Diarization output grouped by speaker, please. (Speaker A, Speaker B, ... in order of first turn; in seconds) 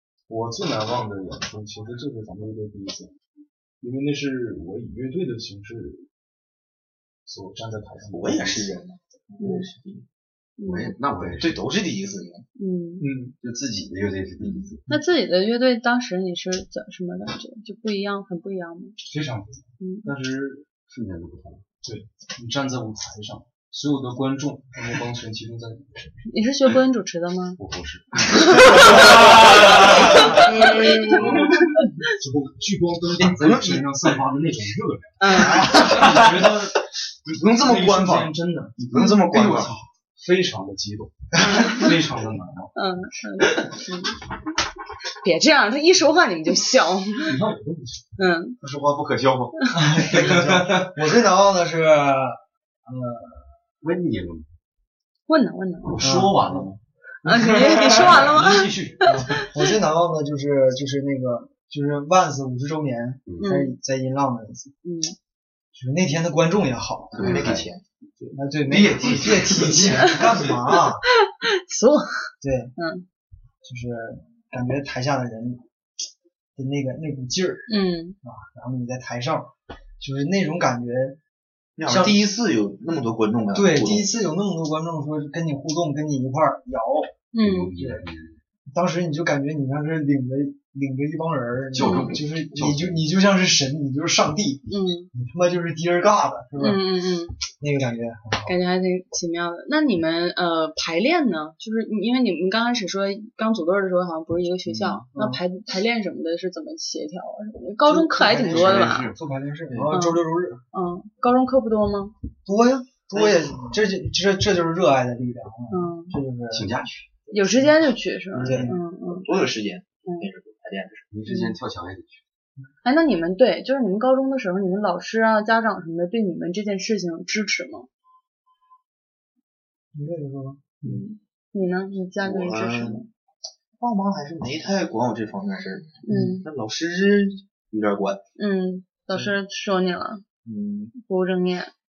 Speaker A: 0.3-3.1, 3.8-6.0, 7.2-8.8, 13.0-13.3, 19.0-20.7, 21.8-26.2, 27.6-42.7, 47.2-48.1, 50.2-50.6, 55.8-59.0
Speaker B: 8.1-10.0, 11.2-12.4, 33.1-34.1, 35.6-36.5, 37.3-39.8, 67.2-67.8, 81.8-84.1, 113.1-113.8, 118.3-121.1, 132.2-133.1, 133.8-138.2, 140.4-140.9
Speaker C: 9.4-9.7, 10.6-10.9, 12.6-13.1, 14.4-19.0, 19.8-20.1, 26.3-27.6, 28.3-31.6, 35.2-35.9, 41.6-41.9, 42.8-44.1, 45.2-47.3, 48.2-48.6, 55.3-55.9, 57.2-59.6, 63.4-63.8, 64.8-65.1, 71.2-73.0, 77.7-78.2, 87.3-87.7, 91.8-92.1, 94.7-95.1, 96.6-97.3, 98.5-109.1, 109.9-112.1, 115.7-116.1, 117.3-119.2, 121.2-121.6, 122.8-127.9, 131.5-133.1, 136.0-136.4, 138.4-140.2, 140.9-141.7
Speaker D: 10.6-11.6, 13.4-14.8, 20.9-21.6, 39.3-39.8, 48.6-49.7, 53.8-54.5, 67.1-67.7, 68.7-70.5, 87.4-88.4, 91.7-93.0, 108.5-109.2, 116.5-117.2, 121.1-122.2
Speaker E: 49.7-53.6, 56.0-56.7, 59.0-64.7, 65.7-67.6, 68.3-71.0, 72.4-72.7, 73.6-75.6, 76.5-77.7, 78.2-81.2, 81.8-82.2, 83.5-87.1, 87.8-88.0, 88.7-96.8, 97.6-98.5, 105.0-105.4, 107.8-110.6, 112.5-116.7, 117.3-117.7, 118.4-118.8, 129.9-130.7